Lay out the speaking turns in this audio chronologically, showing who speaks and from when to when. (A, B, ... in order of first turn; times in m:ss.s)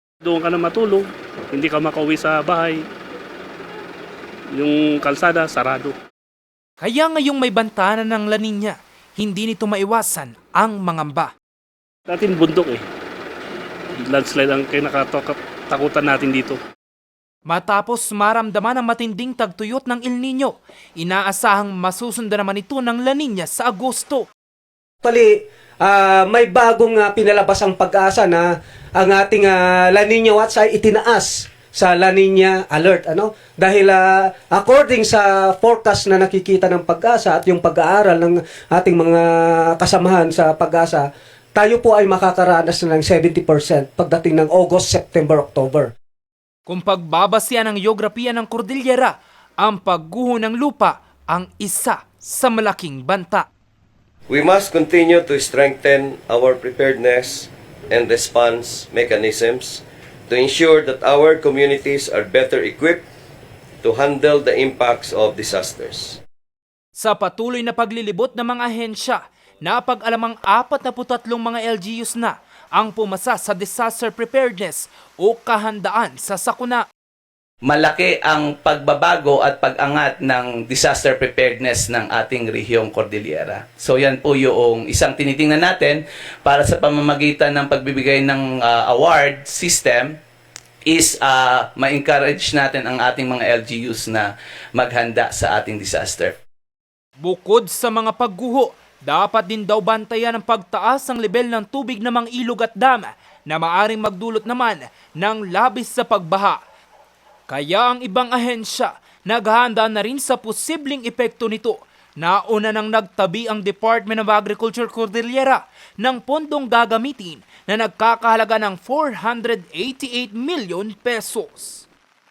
0:00.2-0:02.8 A
0:04.5-0:05.9 A
0:06.8-0:11.3 B
0:12.1-0:12.8 A
0:14.0-0:16.6 A
0:17.4-0:24.2 B
0:25.0-0:45.9 C
0:46.7-0:53.5 B
0:54.3-1:03.0 D
1:03.8-1:06.2 D
1:07.0-1:16.8 B
1:17.6-1:30.2 E
1:30.9-1:36.4 E
1:37.2-1:46.6 B
1:47.5-2:01.8 B